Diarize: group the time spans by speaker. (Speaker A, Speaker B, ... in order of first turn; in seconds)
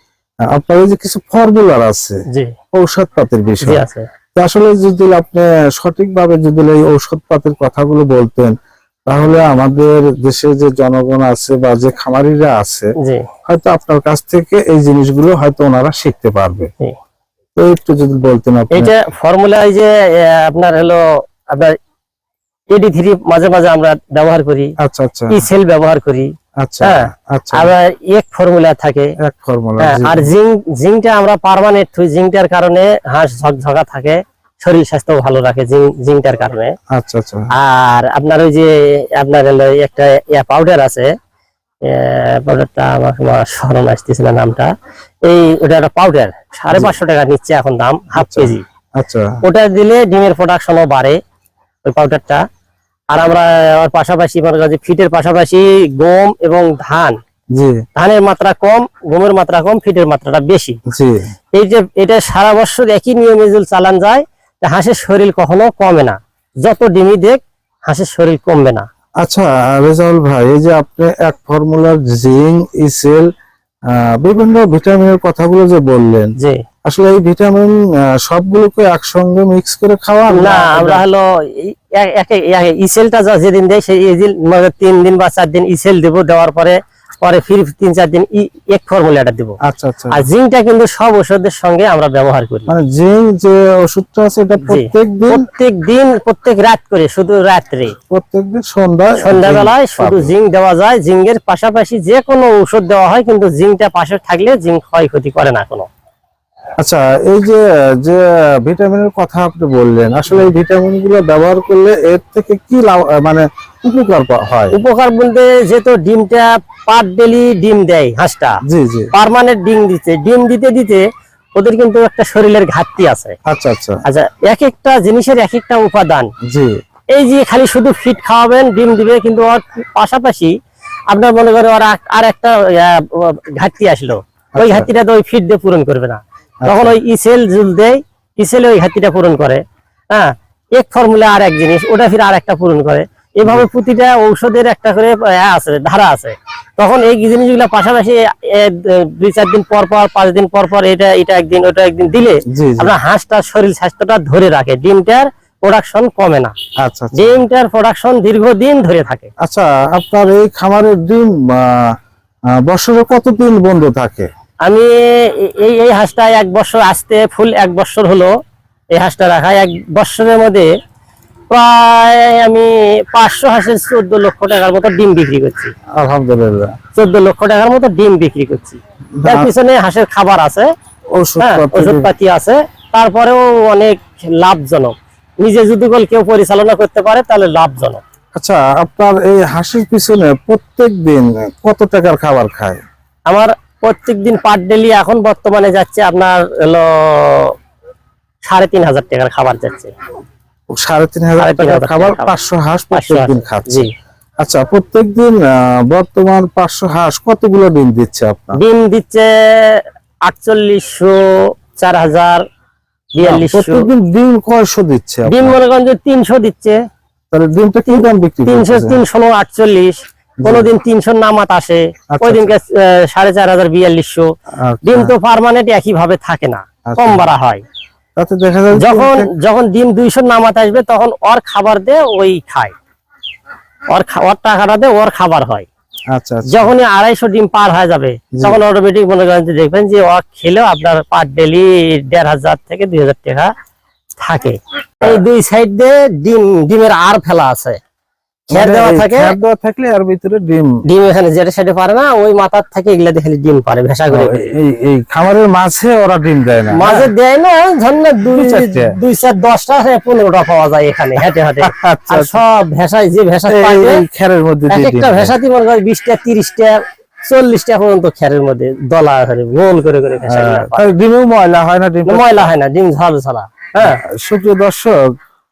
Speaker A: 0.5-2.2, 2.7-3.8, 4.3-8.5, 9.1-12.9, 13.5-16.7, 17.6-18.9, 24.8-25.4, 26.6-27.7, 29.2-30.3, 36.9-37.5, 48.1-49.3, 60.9-61.2, 69.2-73.2, 73.9-76.3, 76.8-81.0, 89.6-90.3, 92.7-95.4, 98.1-100.3, 106.8-114.7, 118.7-119.1, 123.5-124.0, 126.5-126.7, 134.6-134.9, 136.6-136.9, 152.5-152.9, 156.8-157.4, 159.4-161.9, 162.5-164.3, 176.0-176.7, 179.2-179.5, 181.2-182.1, 188.3-192.8, 200.7-203.9, 204.4-208.6, 213.2-215.6, 217.3-219.0, 220.4-220.7, 222.1-222.5, 224.6-225.1, 226.9-227.3, 228.2-229.3, 236.1-236.7, 238.3-238.6, 248.5-250.7, 254.1-257.1, 258.2-258.9, 261.6-262.4, 263.5-265.3, 270.2-272.5, 273.8-275.0
Speaker B: 3.6-4.0, 13.0-13.2, 18.7-21.8, 22.7-24.7, 25.3-26.3, 26.8-29.1, 29.8-36.7, 37.5-41.1, 41.8-44.7, 45.2-48.6, 49.4-51.2, 51.9-52.4, 53.1-57.1, 58.0-60.8, 61.5-68.8, 80.3-89.6, 90.1-92.7, 94.7-97.9, 99.2-105.9, 114.7-118.6, 119.1-121.0, 121.5-123.3, 124.0-126.3, 127.1-130.5, 131.1-156.5, 157.1-159.3, 164.7-168.3, 168.9-170.7, 171.5-175.7, 176.9-180.7, 181.4-188.0, 193.3-197.5, 198.4-199.9, 201.4-202.3, 202.9-203.9, 208.5-211.2, 211.7-212.4, 213.1-213.9, 215.3-216.8, 217.9-224.3, 224.8-227.6, 228.8-232.7, 233.9-235.7, 236.5-243.5, 244.2-247.8, 248.5-249.3, 250.9-254.4, 256.7-264.0, 264.7-270.9, 272.1-274.0